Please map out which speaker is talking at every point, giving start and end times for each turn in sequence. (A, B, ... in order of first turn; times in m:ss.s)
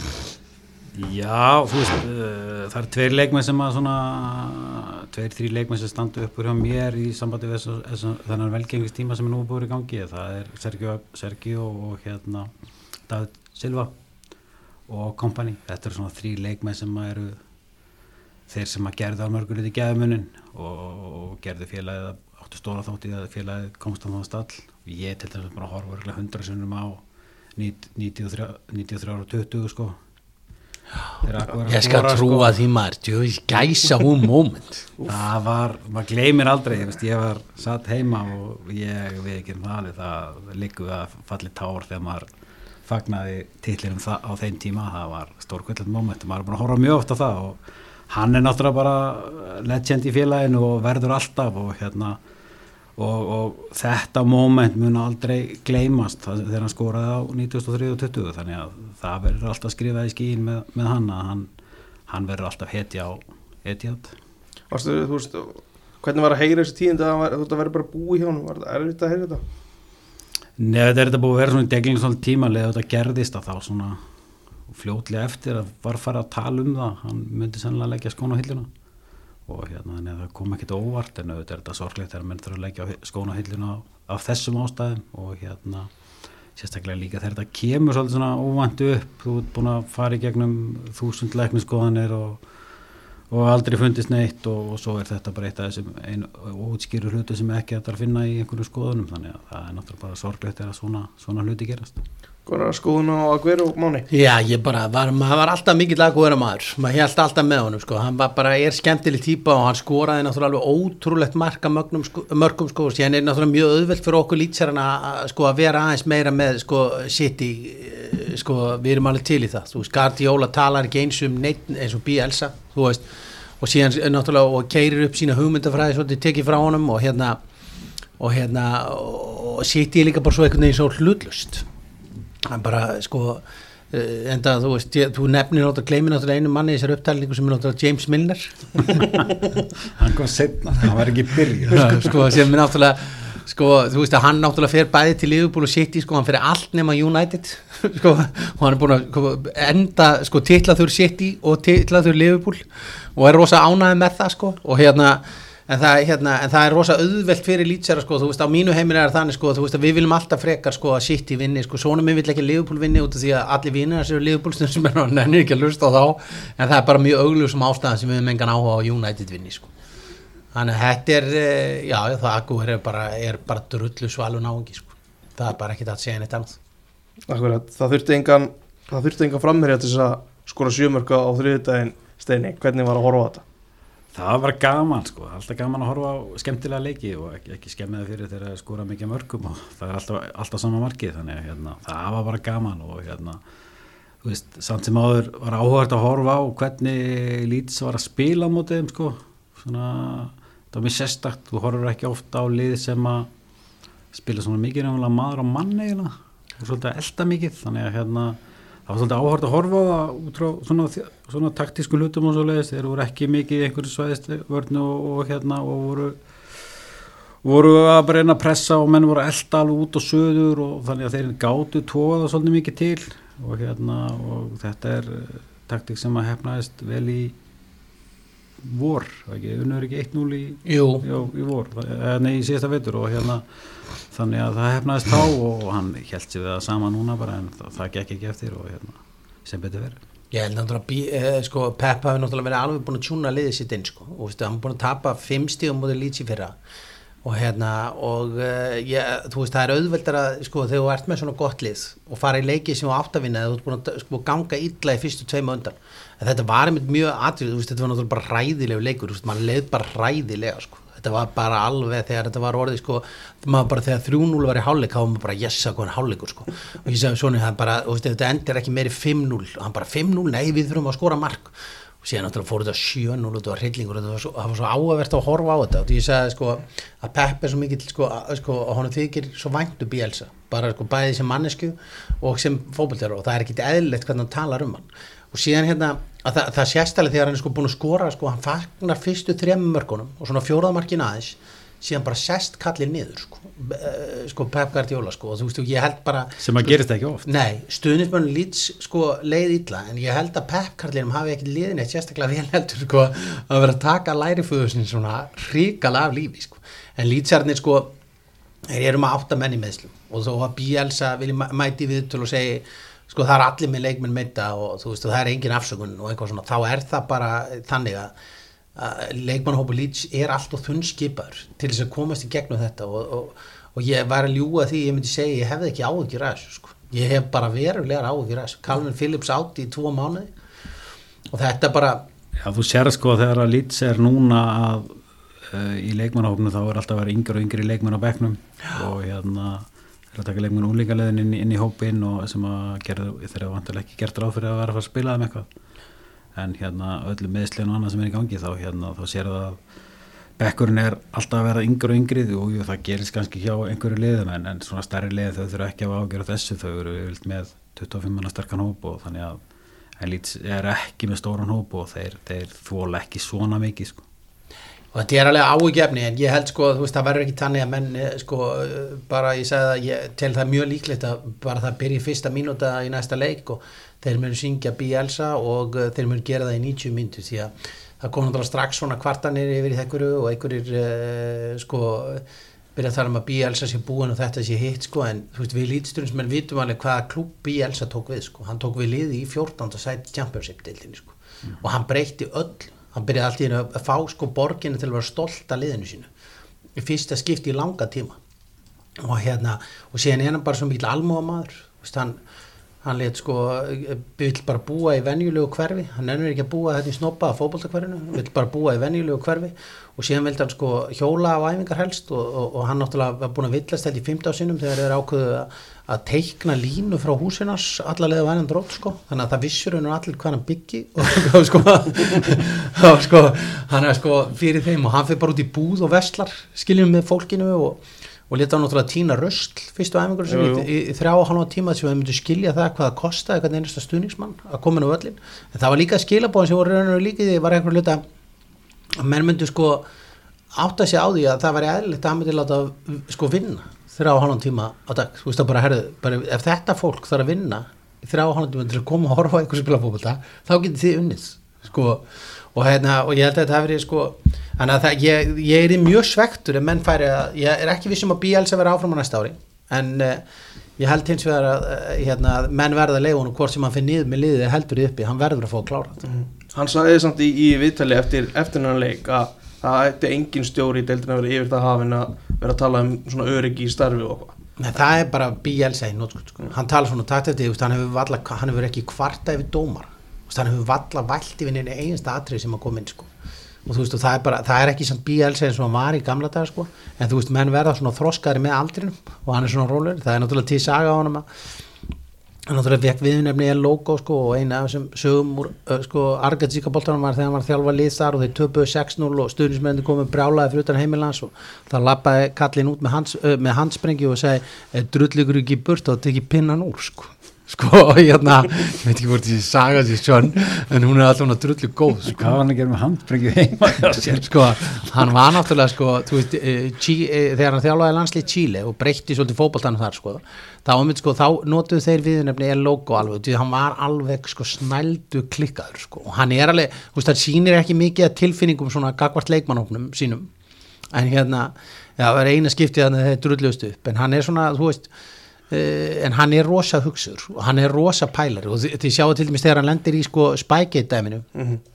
0:00.9-0:12.5 A
0:13.1-0:13.9 A
0:14.9-0:17.4 A
0:18.5-0:27.0 A
0:27.6-0:30.0 A
0:31.2-0:32.6 A
0:31.7-0:35.0 B
0:35.1-0:42.3 A
0:42.9-0:52.2 A
0:53.0-1:01.5 A
1:02.1-1:04.2 A
1:04.7-1:09.4 C
1:10.6-1:14.0 A
1:14.7-1:18.7 A
1:19.5-1:25.9 A
1:26.6-1:32.4 A
1:33.3-1:42.0 A
1:42.5-1:44.1 C
1:44.1-2:03.0 B
2:03.6-2:07.4 B
2:08.2-2:11.7 B
2:12.5-2:18.6 B
2:19.9-2:22.2 A
2:21.7-2:32.6 B
2:33.2-2:49.7 B
2:50.5-2:56.6 B
2:57.3-3:03.4 C
3:04.1-3:13.4 A
3:14.2-3:23.3 A
3:24.1-3:36.2 A
3:37.4-3:47.4 A
3:48.6-3:53.5 A
3:50.6-3:51.1 B
3:54.1-4:00.0 A
4:00.3-4:06.6 B
4:07.2-5:07.9 B
4:56.4-4:57.2 A
5:08.7-5:18.1 B
5:18.8-5:30.3 B
5:31.3-5:32.0 B
5:32.4-5:45.5 A
5:46.4-5:49.6 A
5:50.4-5:59.4 A
6:00.0-6:04.0 A
6:04.9-6:22.2 B
6:22.8-6:36.1 B
6:36.8-6:38.2 B
6:39.0-6:42.2 B
6:42.8-7:18.0 B
7:10.3-7:10.7 C
7:19.0-7:19.9 B
7:20.5-7:40.2 B
7:40.8-7:46.0 B
7:46.1-7:54.4 C
7:54.6-8:03.1 B
8:03.7-8:11.3 B
8:12.5-8:32.3 B
8:32.0-8:34.5 A
8:34.0-8:50.3 B
8:50.9-8:54.9 B
8:55.5-9:01.3 B